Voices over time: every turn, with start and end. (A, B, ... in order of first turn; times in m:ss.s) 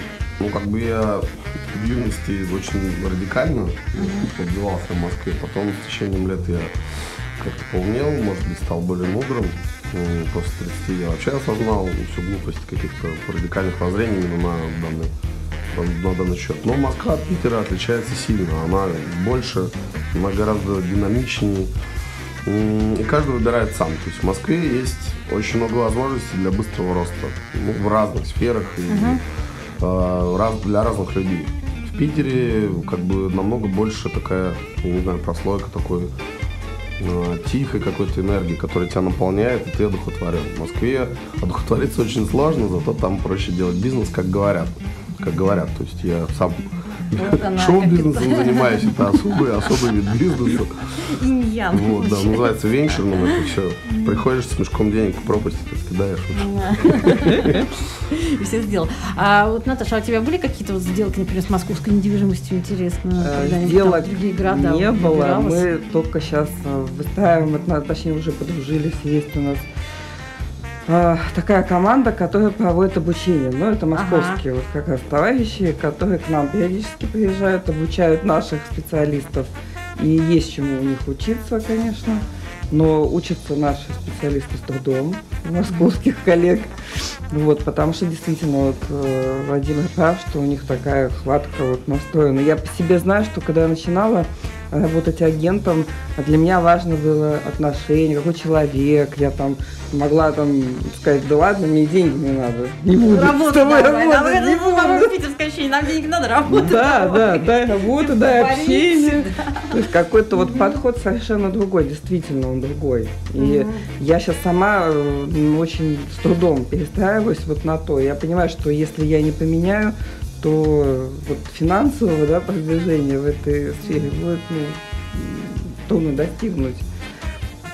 0:00.4-0:06.7 A
0:04.0-0:04.3 B
0:07.4-0:15.1 A
0:15.7-0:21.7 A
0:22.4-0:29.2 A
0:28.9-0:29.2 B
0:29.8-0:36.1 A
0:37.0-0:50.8 A
0:47.1-0:49.7 B
0:51.0-0:54.2 B
0:51.7-0:57.5 A
0:56.4-1:05.6 B
0:57.3-0:57.6 C
1:03.2-1:09.7 C
1:10.9-1:45.1 C
1:13.9-1:14.4 B
1:43.0-1:49.8 B
1:46.5-2:06.8 C
1:50.4-1:50.8 B
1:53.4-1:53.8 B